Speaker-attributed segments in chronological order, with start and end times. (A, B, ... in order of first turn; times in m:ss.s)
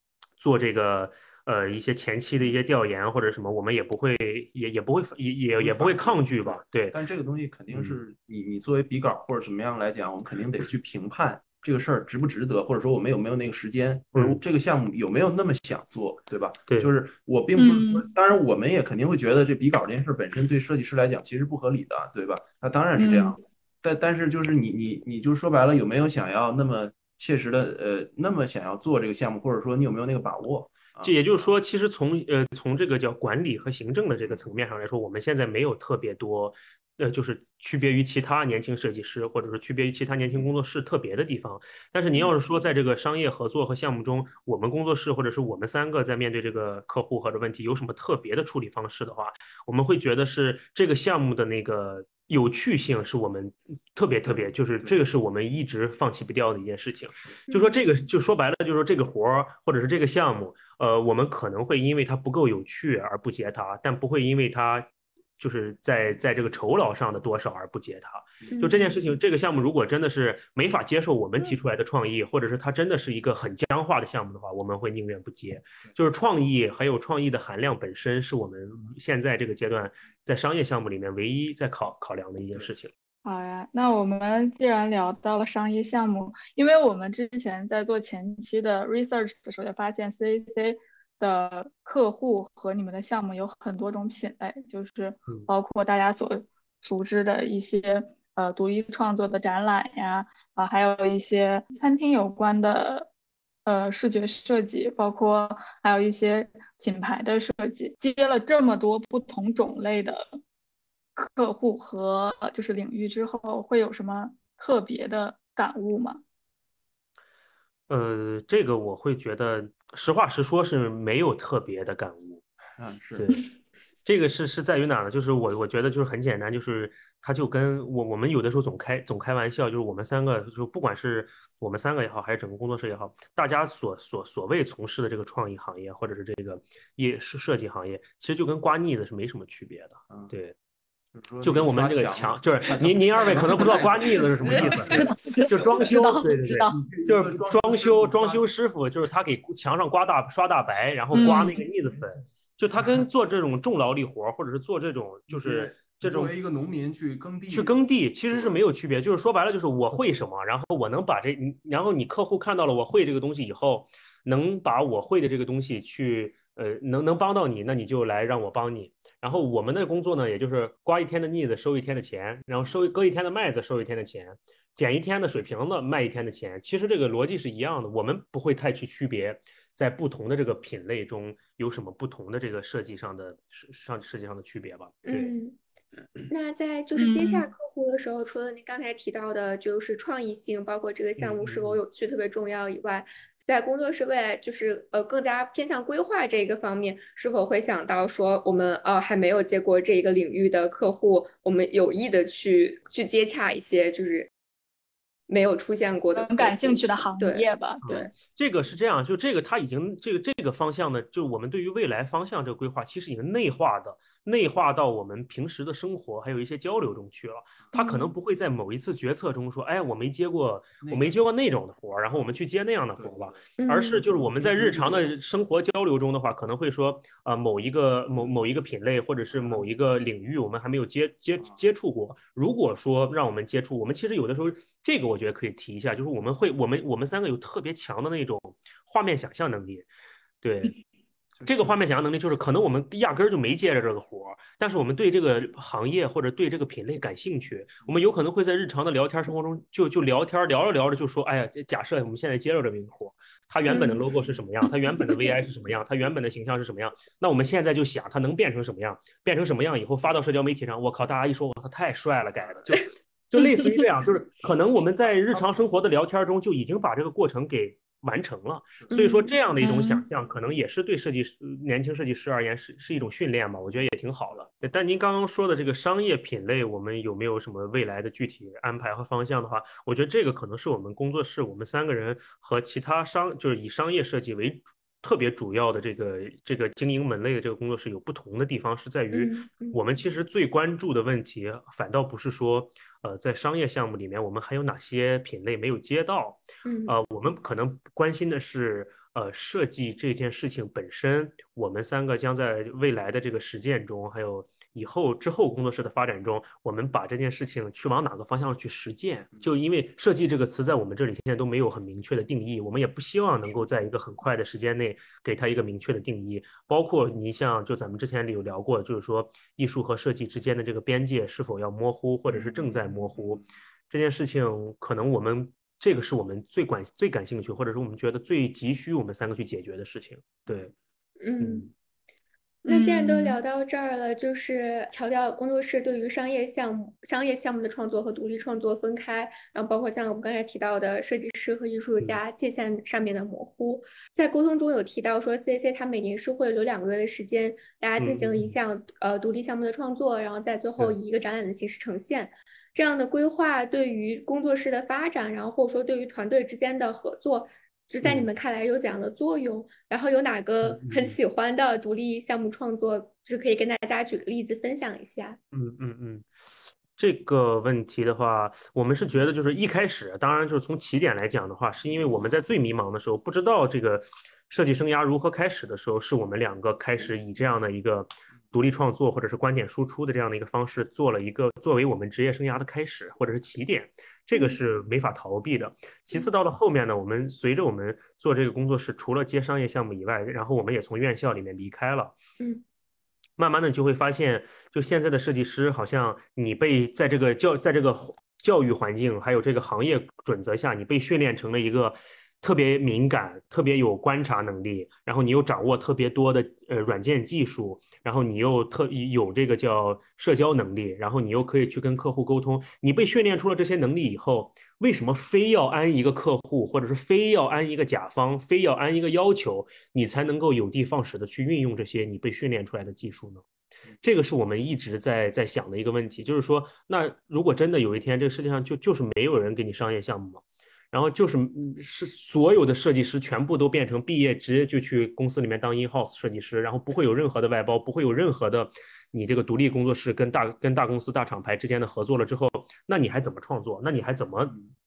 0:00.4-0:07.0 A
0:05.6-0:31.2 B
0:07.7-0:08.0 A
0:14.1-0:14.4 A
0:17.6-0:18.1 C
0:23.0-0:23.4 C
0:31.0-1:22.9 A
0:54.2-0:55.0 B
0:57.5-0:57.8 D
1:08.5-1:08.9 D
1:23.2-1:43.1 C
1:43.6-1:50.4 C
1:51.2-1:56.2 C
1:57.9-2:02.4 A
2:02.8-2:03.3 B
2:03.1-2:03.5 A
2:04.0-2:20.5 A
2:21.1-2:25.2 B
2:21.4-2:36.3 A
2:24.8-2:26.8 C
2:26.7-2:28.5 B
2:31.1-2:31.6 C
2:35.3-2:37.8 B
2:37.5-3:05.3 A
2:38.3-2:38.6 B
3:05.0-3:05.6 D
3:06.3-3:24.3 D
3:07.0-3:07.5 C
3:11.2-3:11.8 A
3:25.3-3:28.0 D
3:26.1-3:28.0 C
3:27.8-3:59.9 A
3:37.7-3:38.1 D
3:40.8-3:41.1 B
3:43.0-3:43.5 B
3:43.6-3:44.0 D
3:44.0-3:45.1 B
3:48.1-3:48.4 B
3:49.3-3:49.6 B
4:00.4-4:00.7 A
4:01.4-4:01.7 B
4:01.4-5:30.7 A
4:13.7-4:14.0 D
4:28.9-4:29.3 D
4:29.6-4:30.0 C
4:49.1-4:49.8 D
4:56.6-4:56.9 D
5:22.3-5:23.5 B
5:30.5-5:30.7 B
5:31.2-5:31.7 D
5:31.4-5:31.7 A
5:32.6-5:33.4 C
5:32.7-6:05.4 D
5:48.0-5:48.5 A
6:00.6-6:01.2 A
6:05.5-6:32.2 A
6:24.3-6:24.6 D
6:33.4-7:03.4 A
7:04.0-7:24.5 A